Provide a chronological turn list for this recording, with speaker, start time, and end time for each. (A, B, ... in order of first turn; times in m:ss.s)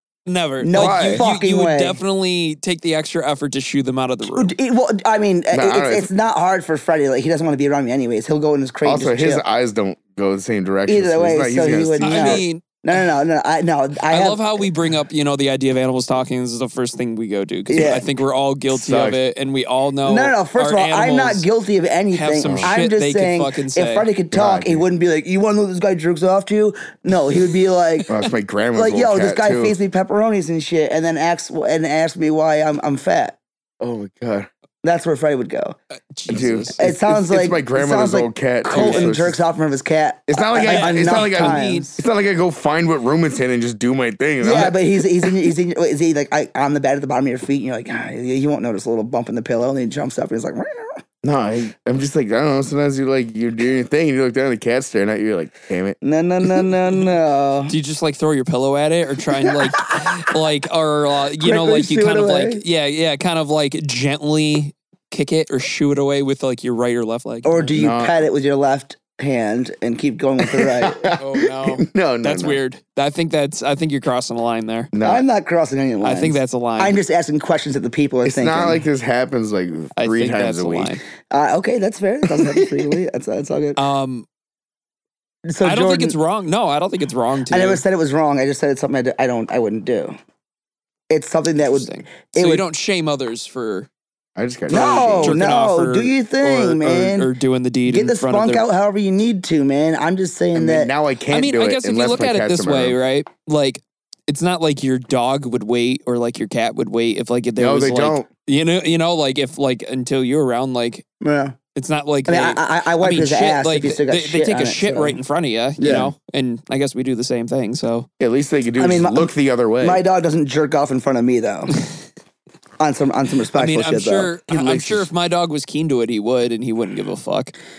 0:00.3-0:04.6 A
0:00.6-0:02.0 B
0:00.7-0:01.2 C
0:04.2-0:09.4 B
0:05.5-0:06.1 C
0:08.8-0:12.4 C
0:10.9-0:14.7 B
0:12.0-0:12.6 A
0:14.1-0:21.5 A
0:17.7-0:18.1 B
0:18.7-0:19.2 C
0:20.0-0:28.1 B
0:22.1-0:24.1 A
0:22.4-0:22.7 C
0:24.3-0:24.8 C
0:28.1-0:29.8 C
0:28.8-0:33.4 B
0:33.8-0:34.5 C
0:34.8-0:35.8 B
0:36.1-0:36.8 A
0:36.3-0:39.4 C
0:36.8-0:42.0 B
0:38.7-0:39.2 A
0:40.3-0:45.3 C
0:40.6-0:41.9 A
0:44.4-0:51.0 B
0:51.2-0:56.0 C
0:56.0-0:57.7 B
0:57.7-1:07.7 A
0:59.4-1:00.1 B
1:01.4-1:02.6 B
1:07.4-1:11.1 B
1:07.7-1:08.2 C
1:10.4-1:12.6 C
1:11.2-1:14.9 A
1:14.9-1:15.2 C
1:15.0-1:18.8 B
1:16.0-1:17.0 A
1:18.2-1:21.0 C
1:20.0-1:21.0 A
1:21.3-1:23.8 B
1:22.4-1:22.7 C
1:23.8-1:24.3 A
1:25.5-1:26.2 B
1:25.6-1:27.8 A
1:27.5-1:30.2 B
1:31.1-1:32.6 B
1:31.7-1:33.9 A
1:34.4-1:35.4 C
1:34.7-1:37.3 B
1:34.7-1:38.6 A
1:37.9-1:40.9 B
1:40.6-1:43.0 C
1:41.3-1:51.0 A
1:47.6-1:48.3 C
1:51.2-1:51.6 B
1:51.8-1:58.1 A
1:52.3-1:55.2 B
1:55.8-1:56.1 C
1:58.2-2:00.0 C
1:58.8-1:59.3 B
1:59.8-2:01.7 B
2:02.8-2:05.1 B
2:03.5-2:07.5 A